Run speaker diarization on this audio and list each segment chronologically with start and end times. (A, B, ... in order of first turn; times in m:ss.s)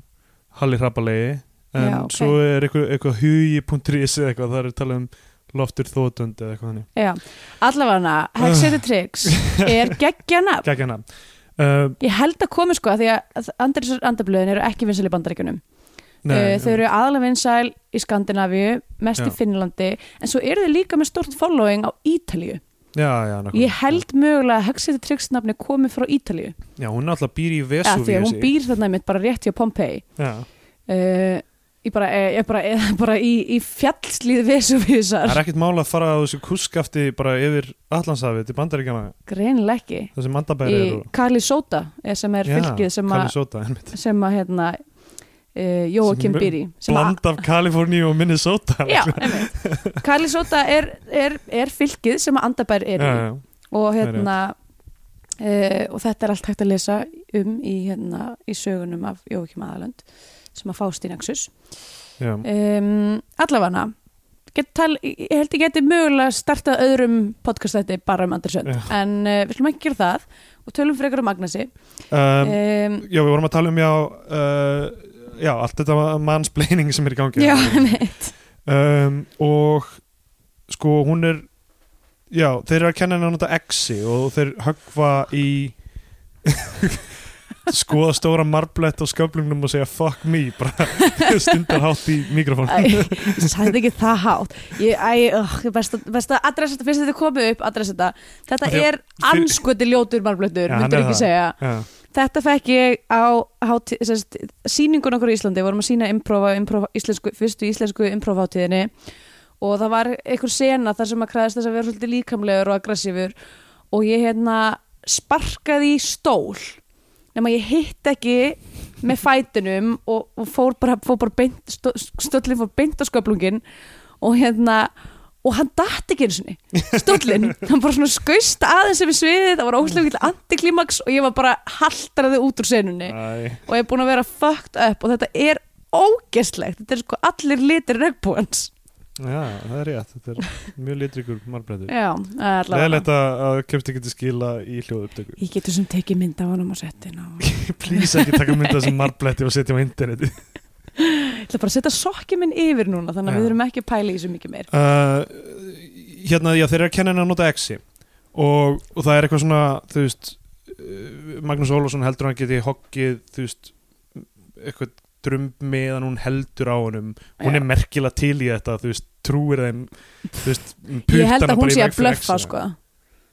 0:00.5-0:06.9 A
0:01.8-0:02.4 B
0:07.0-0:10.7 B
0:08.4-0:09.9 A
0:10.6-0:11.1 A
0:11.6-0:12.0 A
0:12.0-0:15.6 B
0:16.2-0:16.8 A
0:16.3-0:22.6 B
0:22.9-0:24.0 A
0:23.5-0:26.6 B
0:26.8-0:28.5 A
0:27.8-0:30.0 B
0:30.2-0:30.5 A
0:30.9-0:35.4 B
0:35.2-0:39.2 A
0:39.3-0:40.1 B
0:40.2-0:41.1 A
0:40.6-0:43.4 B
0:42.4-0:44.0 A
0:43.9-0:44.8 B
0:45.5-0:47.2 B
0:46.0-0:50.0 A
0:48.9-0:54.6 B
0:53.0-0:53.4 A
0:54.0-0:54.3 A
0:55.4-1:00.0 B
1:00.5-1:01.5 B
1:02.2-1:02.4 A
1:02.4-1:03.9 B
1:04.5-1:11.7 B
1:08.6-1:08.9 A
1:12.1-1:18.0 A
1:12.4-1:13.1 B
1:17.4-1:18.3 B
1:18.7-1:20.0 A
1:20.7-1:21.5 A
1:22.3-1:25.8 A
1:26.5-1:27.1 A
1:27.7-1:33.7 A
1:31.0-1:31.6 B
1:32.7-1:48.9 B
1:38.6-1:39.6 A
1:40.7-1:41.9 A
1:49.6-1:53.3 B
1:53.9-1:56.8 B
1:57.4-2:03.6 B
2:04.2-2:04.9 B
2:05.4-2:18.7 B
2:06.9-2:07.5 A
2:13.1-2:13.6 A
2:19.2-2:21.9 A
2:21.9-2:23.1 B
2:22.7-2:25.4 A
2:25.4-2:29.0 B
2:27.4-2:30.4 A
2:31.0-2:34.7 B
2:33.3-2:33.6 A
2:34.7-2:37.8 A
2:38.3-2:52.5 A
2:47.4-2:47.6 B
2:51.1-2:52.8 B